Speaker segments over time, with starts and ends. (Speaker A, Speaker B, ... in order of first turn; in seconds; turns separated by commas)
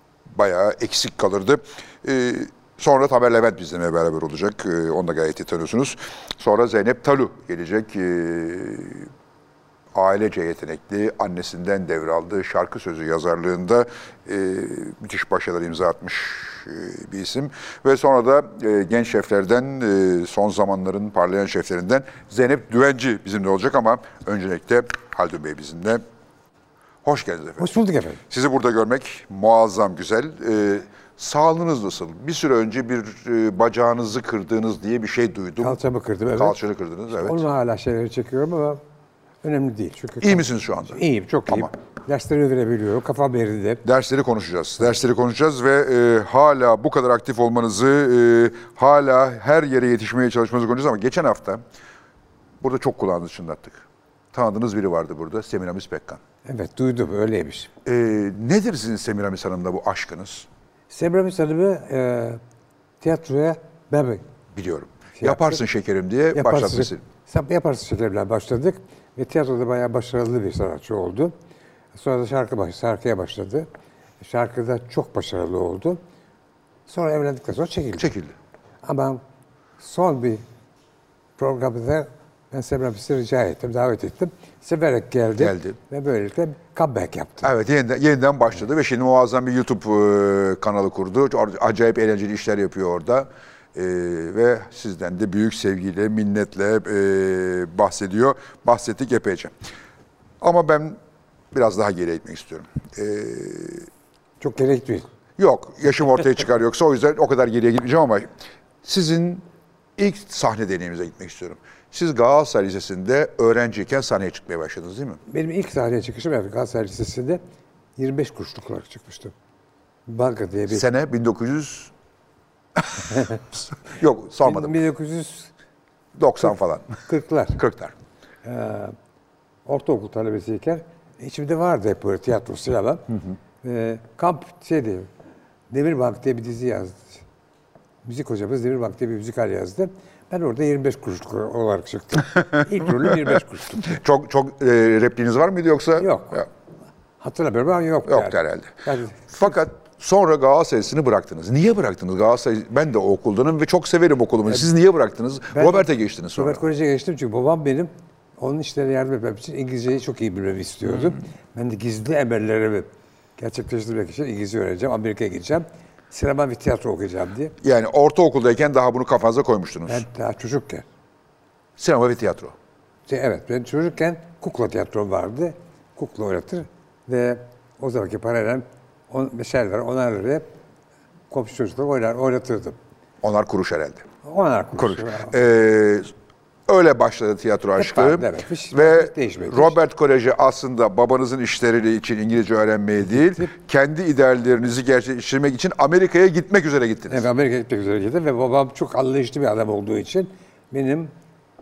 Speaker A: 0.3-9.1, Speaker A: 9.9-26.0, Speaker A: 27.0-27.7, Speaker B: 27.6-28.2, Speaker A: 28.3-35.8, Speaker B: 35.6-36.6, Speaker A: 36.3-37.5, Speaker B: 37.1-38.8, Speaker B: 39.4-43.8, Speaker A: 40.2-41.7, Speaker A: 43.8-51.6, Speaker A: 52.6-56.2, Speaker B: 56.5-57.7, Speaker A: 57.9-60.5, Speaker B: 60.9-62.4, Speaker B: 63.0-64.2, Speaker A: 64.5-67.0, Speaker B: 65.2-65.6, Speaker B: 66.3-71.3, Speaker B: 71.9-73.7, Speaker B: 74.2-76.0, Speaker B: 76.9-78.1, Speaker A: 78.0-78.3, Speaker B: 78.8-79.2, Speaker B: 79.8-80.4, Speaker B: 81.4-87.5, Speaker A: 85.4-85.8, Speaker A: 87.4-99.5, Speaker A: 100.4-101.0, Speaker A: 101.5-103.9, Speaker B: 104.4-105.1, Speaker A: 105.4-108.3, Speaker A: 108.8-109.5, Speaker A: 110.0-115.2, Speaker B: 115.3-117.4, Speaker B: 118.0-119.3, Speaker B: 120.1-120.8, Speaker A: 120.7-121.9, Speaker A: 122.8-124.8, Speaker B: 123.1-123.4, Speaker B: 124.4-125.5, Speaker A: 126.2-127.0, Speaker B: 127.1-127.6, Speaker A: 127.5-127.9, Speaker B: 128.4-129.0, Speaker B: 129.7-133.1, Speaker B: 133.6-135.1, Speaker B: 135.7-137.2, Speaker B: 138.0-144.0, Speaker A: 143.0-146.5, Speaker B: 146.0-146.4, Speaker B: 147.2-149.6, Speaker A: 148.1-156.6, Speaker B: 155.5-167.6, Speaker A: 167.6-170.1, Speaker B: 169.9-170.8, Speaker A: 171.8-172.6, Speaker B: 173.1-180.5, Speaker B: 181.3-182.8, Speaker A: 183.2-184.1, Speaker B: 184.2-185.4, Speaker A: 184.8-186.1, Speaker A: 186.7-197.3, Speaker B: 187.8-189.8, Speaker B: 193.1-193.5, Speaker B: 197.1-201.1